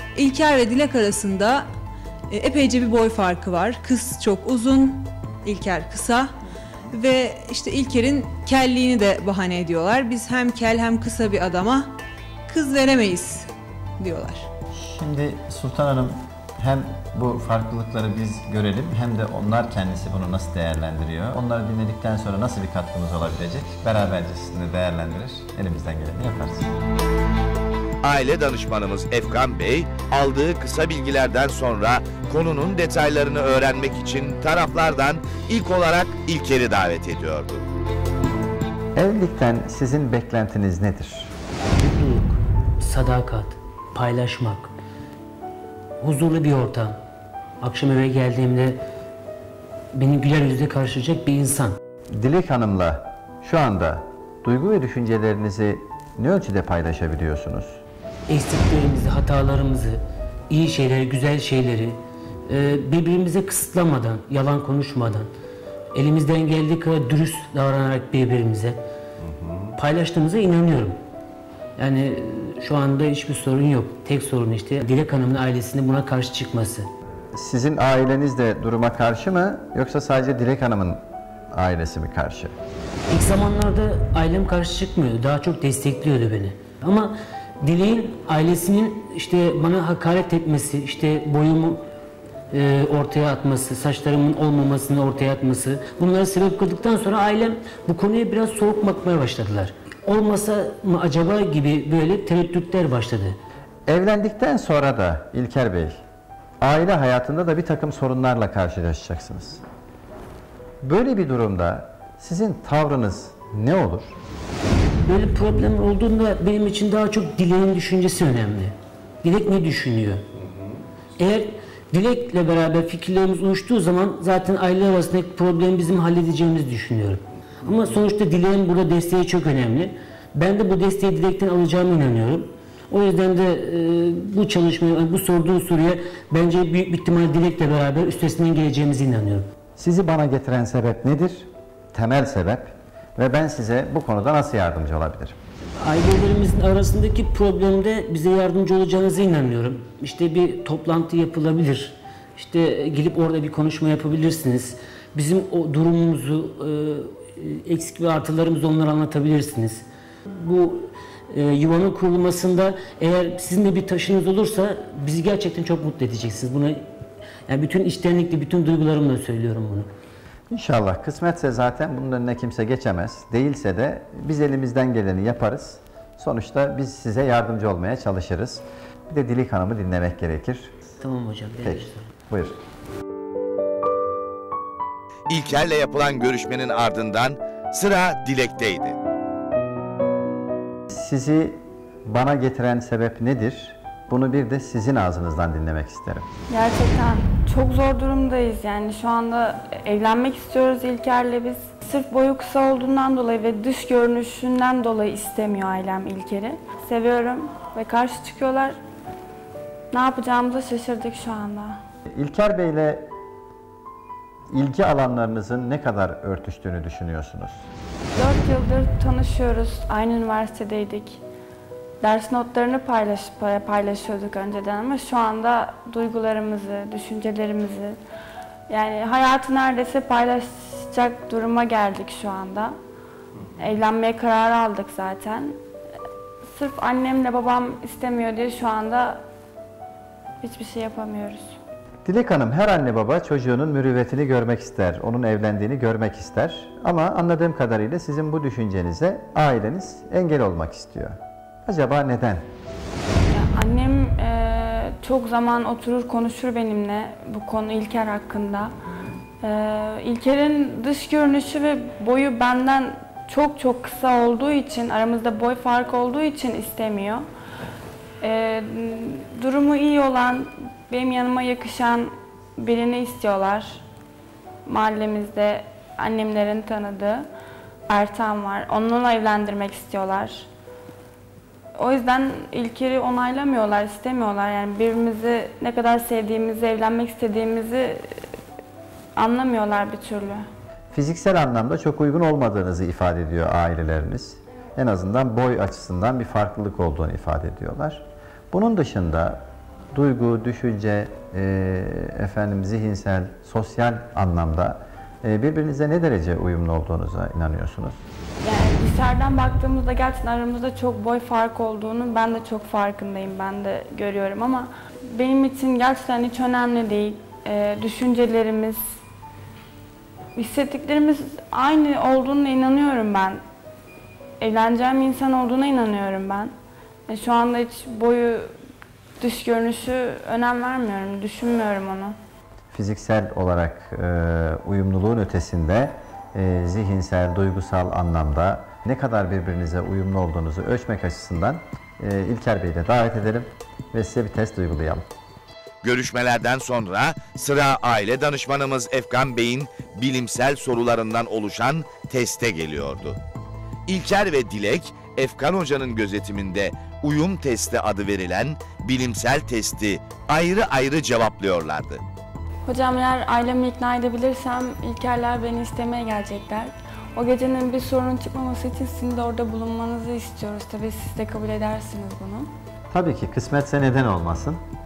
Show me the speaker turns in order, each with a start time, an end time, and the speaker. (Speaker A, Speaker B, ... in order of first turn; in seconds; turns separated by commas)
Speaker A: 0.1-1.7, Speaker A: 2.3-6.3, Speaker A: 6.9-11.9, Speaker A: 12.5-14.5, Speaker B: 14.7-26.7, Speaker C: 28.0-37.6, Speaker B: 39.0-41.3, Speaker D: 41.8-44.7, Speaker D: 46.0-47.0, Speaker D: 47.6-48.8, Speaker D: 49.9-51.8, Speaker B: 52.1-57.8, Speaker D: 58.3-65.3, Speaker D: 65.9-68.8, Speaker D: 69.8-71.0, Speaker D: 71.8-76.9, Speaker B: 77.3-81.0, Speaker B: 81.5-82.5, Speaker D: 83.1-91.8, Speaker D: 92.5-103.4, Speaker B: 103.9-106.0, Speaker B: 106.6-109.6, Speaker B: 110.8-114.1, Speaker D: 115.0-120.2, Speaker D: 121.2-139.5, Speaker B: 139.8-145.3, Speaker D: 145.8-166.8, Speaker D: 167.5-169.9, Speaker B: 170.5-180.7, Speaker D: 181.0-182.1, Speaker B: 181.6-182.6, Speaker C: 185.3-189.0, Speaker B: 190.9-196.3, Speaker E: 196.5-208.8, Speaker E: 209.9-211.8, Speaker B: 212.1-213.1, Speaker B: 214.5-217.7, Speaker E: 218.1-221.2, Speaker E: 222.0-228.0, Speaker E: 228.7-232.7, Speaker E: 233.6-235.6, Speaker E: 236.5-239.2, Speaker E: 240.4-241.6, Speaker B: 242.1-252.4, Speaker E: 253.3-258.7, Speaker E: 259.4-267.2, Speaker E: 268.2-273.8, Speaker E: 274.6-277.2, Speaker E: 277.9-280.5, Speaker E: 281.8-288.2, Speaker E: 289.2-290.4, Speaker B: 290.9-299.4, Speaker B: 299.9-308.0, Speaker E: 308.4-318.8, Speaker E: 320.4-323.4, Speaker E: 324.4-326.5, Speaker E: 327.1-328.5, Speaker E: 329.2-332.2, Speaker B: 332.7-345.0, Speaker C: 345.8-353.2, Speaker C: 353.9-362.0, Speaker E: 362.7-372.5, Speaker B: 372.9-374.6